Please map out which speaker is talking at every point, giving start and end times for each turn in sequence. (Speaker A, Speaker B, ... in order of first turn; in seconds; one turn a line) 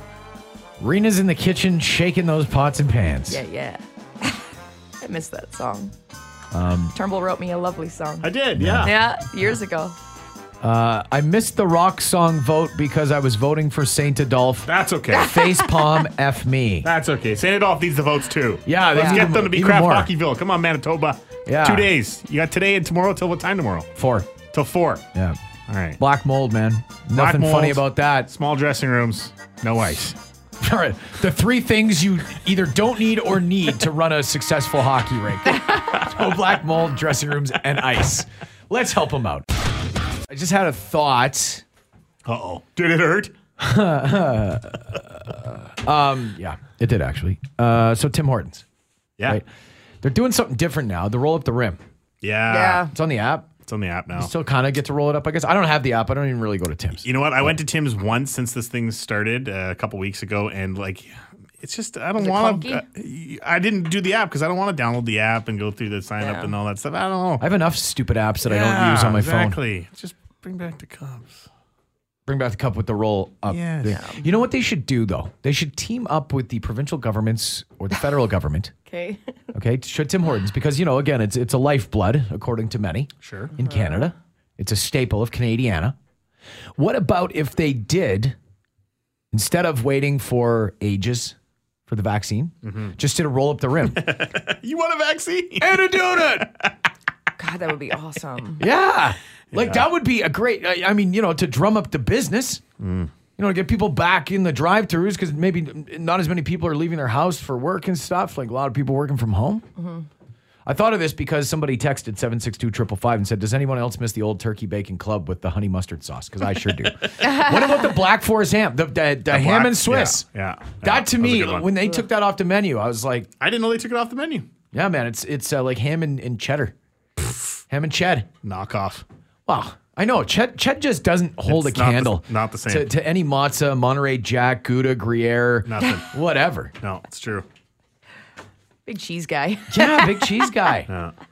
Speaker A: 0.8-3.4
Speaker B: 3.3-4.4
Speaker B: 5.0-5.9
Speaker A: 6.5-7.0
Speaker B: 6.9-8.3
Speaker C: 8.2-8.9
Speaker A: 8.6-8.9
Speaker B: 8.8-9.9
Speaker A: 10.6-16.9
Speaker C: 14.7-15.4
Speaker B: 15.1-15.7
Speaker C: 16.8-23.9
Speaker A: 18.6-20.1
Speaker B: 18.9-19.3
Speaker A: 21.4-21.9
Speaker A: 23.9-24.3
Speaker C: 24.5-25.0
Speaker C: 25.7-26.0
Speaker A: 26.0-28.3
Speaker C: 27.1-30.2
Speaker A: 30.6-39.5
Speaker A: 40.3-41.6
Speaker C: 42.2-43.3
Speaker A: 43.6-48.6
Speaker A: 50.0-51.8
Speaker C: 52.2-52.9
Speaker B: 52.5-52.9
Speaker A: 52.9-53.5
Speaker C: 53.6-54.3
Speaker A: 54.1-57.6
Speaker C: 57.0-61.1
Speaker C: 61.6-67.4
Speaker B: 62.2-62.8
Speaker B: 66.2-66.5
Speaker A: 67.4-69.6
Speaker C: 68.4-71.5
Speaker A: 72.3-78.7
Speaker C: 73.5-74.0
Speaker B: 73.9-74.2
Speaker B: 78.9-79.3
Speaker A: 79.5-85.9
Speaker C: 83.2-83.5
Speaker B: 83.6-84.1
Speaker A: 86.8-88.3
Speaker A: 89.3-91.3
Speaker A: 91.9-94.2
Speaker C: 92.6-92.9
Speaker C: 93.9-96.7
Speaker A: 95.6-96.5
Speaker B: 97.4-98.6
Speaker A: 98.6-102.6
Speaker C: 99.5-99.8
Speaker C: 102.8-103.1
Speaker A: 103.4-109.6
Speaker B: 109.8-110.0
Speaker A: 110.7-120.2
Speaker B: 117.2-117.5
Speaker C: 119.3-121.7
Speaker A: 120.8-123.3
Speaker C: 123.4-124.5
Speaker A: 124.7-126.7
Speaker A: 127.7-128.3
Speaker C: 128.4-129.0
Speaker A: 129.5-136.7
Speaker C: 131.5-132.9
Speaker C: 135.7-136.1
Speaker C: 136.8-137.4
Speaker B: 138.8-140.5
Speaker A: 139.7-140.9